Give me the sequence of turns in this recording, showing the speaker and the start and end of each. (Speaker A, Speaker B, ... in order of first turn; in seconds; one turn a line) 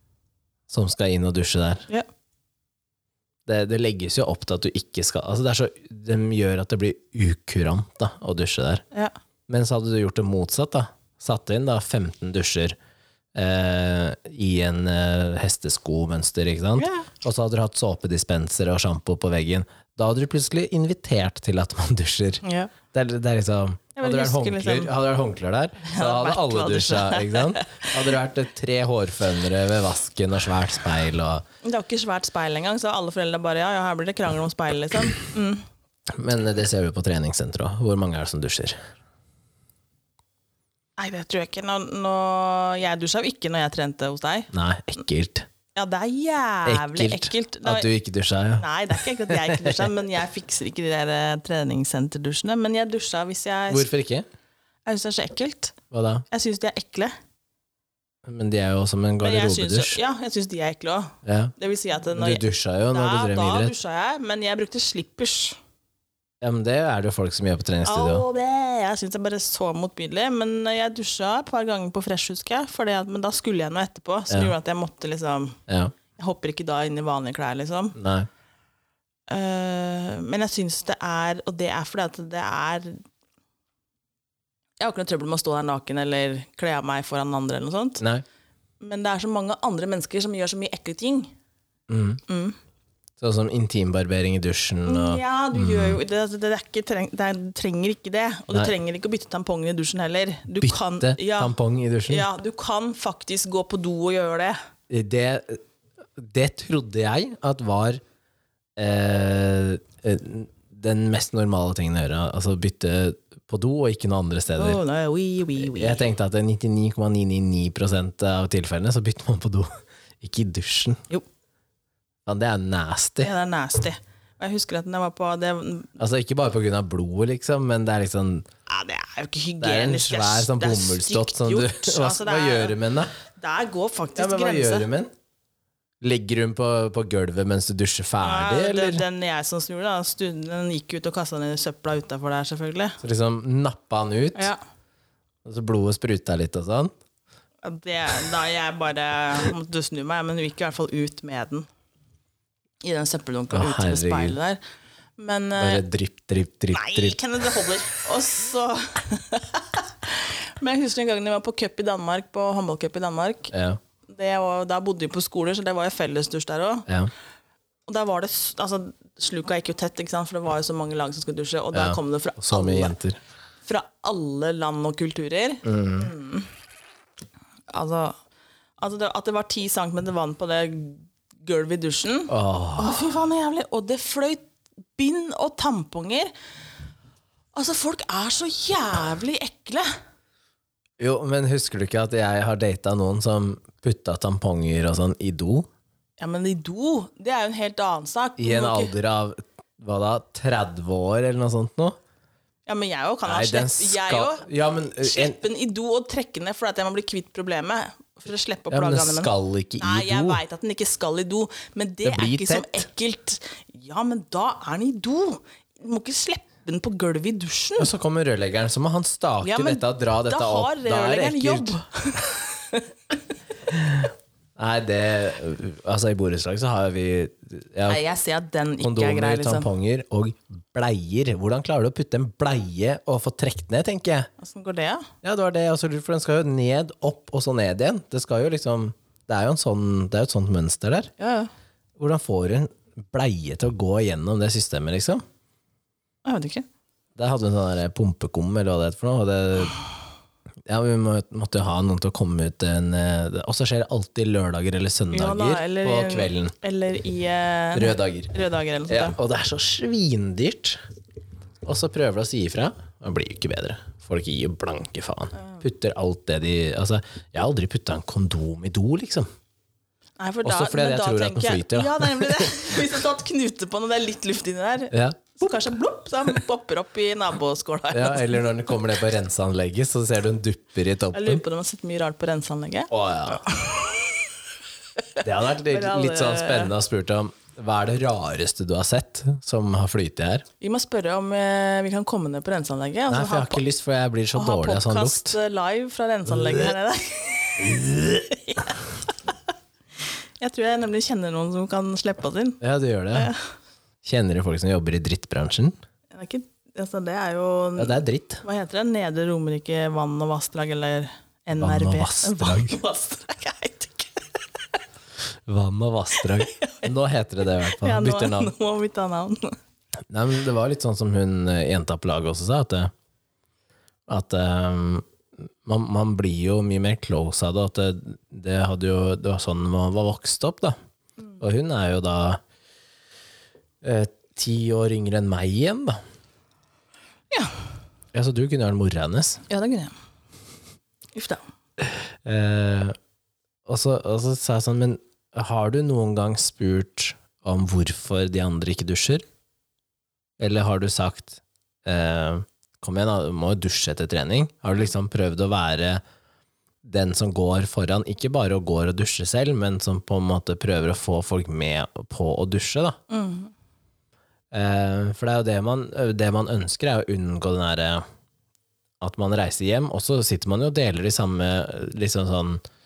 Speaker A: 0.7-1.8
Speaker A: 3.5-8.8
Speaker A: 9.5-12.8
Speaker A: 13.3-31.4
Speaker B: 16.8-17.1
Speaker B: 22.4-22.7
Speaker B: 24.0-24.9
Speaker B: 25.8-28.1
Speaker B: 31.6-35.6
Speaker A: 36.1-38.8
Speaker B: 41.0-44.5
Speaker A: 44.5-45.5
Speaker B: 45.7-47.9
Speaker A: 46.6-49.9
Speaker B: 48.6-53.9
Speaker A: 53.7-54.2
Speaker B: 54.9-55.8
Speaker A: 55.9-56.2
Speaker B: 56.3-57.1
Speaker A: 58.2-60.0
Speaker B: 59.2-65.6
Speaker A: 61.2-61.5
Speaker A: 62.1-63.7
Speaker A: 66.4-68.2
Speaker B: 67.8-75.6
Speaker A: 75.7-75.9
Speaker B: 76.2-77.9
Speaker A: 77.9-78.3
Speaker B: 79.3-83.0
Speaker B: 84.8-88.0
Speaker B: 88.8-91.3
Speaker A: 91.9-92.2
Speaker B: 92.3-92.6
Speaker A: 93.2-96.0
Speaker B: 94.8-101.5
Speaker A: 100.6-102.3
Speaker B: 102.1-104.6
Speaker A: 104.9-105.6
Speaker A: 106.2-108.0
Speaker A: 108.8-114.8
Speaker B: 114.5-116.0
Speaker A: 115.6-119.7
Speaker A: 120.2-121.0
Speaker A: 122.2-123.3
Speaker B: 123.2-125.9
Speaker A: 126.0-128.5
Speaker B: 128.7-132.7
Speaker A: 129.6-133.1
Speaker B: 133.3-134.9
Speaker A: 134.2-135.1
Speaker A: 136.0-139.0
Speaker B: 138.2-143.0
Speaker A: 143.0-144.5
Speaker B: 144.3-144.6
Speaker A: 145.4-146.9
Speaker B: 147.6-151.7
Speaker B: 152.8-154.6
Speaker A: 153.5-154.4
Speaker B: 155.2-155.8
Speaker A: 155.6-157.2
Speaker B: 156.7-163.5
Speaker A: 163.5-163.8
Speaker B: 164.1-166.9
Speaker B: 167.9-172.9
Speaker A: 171.7-173.2
Speaker B: 173.6-176.5
Speaker A: 175.6-176.1
Speaker B: 177.7-178.2
Speaker B: 178.8-184.4
Speaker A: 182.3-183.1
Speaker B: 184.9-186.3
Speaker B: 187.5-189.9
Speaker A: 191.0-195.7
Speaker B: 196.2-198.9
Speaker A: 198.4-202.0
Speaker B: 202.7-204.5
Speaker A: 203.2-205.3
Speaker B: 205.0-217.9
Speaker A: 208.7-210.4
Speaker A: 212.0-212.8
Speaker A: 217.8-221.7
Speaker B: 219.4-222.9
Speaker A: 223.7-228.0
Speaker B: 227.9-229.7
Speaker A: 228.8-234.3
Speaker B: 234.4-235.1
Speaker A: 235.2-241.1
Speaker B: 241.2-241.5
Speaker A: 242.0-245.2
Speaker B: 246.2-246.7
Speaker A: 247.2-249.8
Speaker A: 250.7-256.5
Speaker B: 255.1-259.2
Speaker A: 257.7-258.3
Speaker A: 258.9-260.8
Speaker A: 261.6-269.3
Speaker B: 270.2-278.5
Speaker A: 270.4-272.8
Speaker A: 274.9-275.6
Speaker A: 277.9-281.4
Speaker B: 281.1-284.2
Speaker A: 282.9-283.4
Speaker A: 285.2-290.4
Speaker B: 285.7-286.7
Speaker B: 290.6-293.6
Speaker A: 293.1-295.4
Speaker B: 294.3-299.1
Speaker A: 296.3-296.7
Speaker A: 297.6-298.2
Speaker B: 300.4-302.6
Speaker A: 302.6-303.3
Speaker B: 303.1-303.4
Speaker A: 304.0-305.7
Speaker B: 306.1-314.3
Speaker A: 307.8-308.4
Speaker A: 311.6-312.8
Speaker A: 315.4-318.5
Speaker B: 316.4-316.9
Speaker B: 317.6-319.6
Speaker A: 320.1-322.9
Speaker A: 324.1-330.8
Speaker A: 331.4-332.4
Speaker A: 333.8-336.0
Speaker A: 338.1-339.4
Speaker B: 339.5-339.9
Speaker B: 341.1-341.4
Speaker A: 341.8-342.9
Speaker A: 343.7-349.2
Speaker A: 350.4-356.0
Speaker A: 356.8-363.0
Speaker B: 363.1-363.5
Speaker A: 364.5-368.0
Speaker A: 369.0-372.6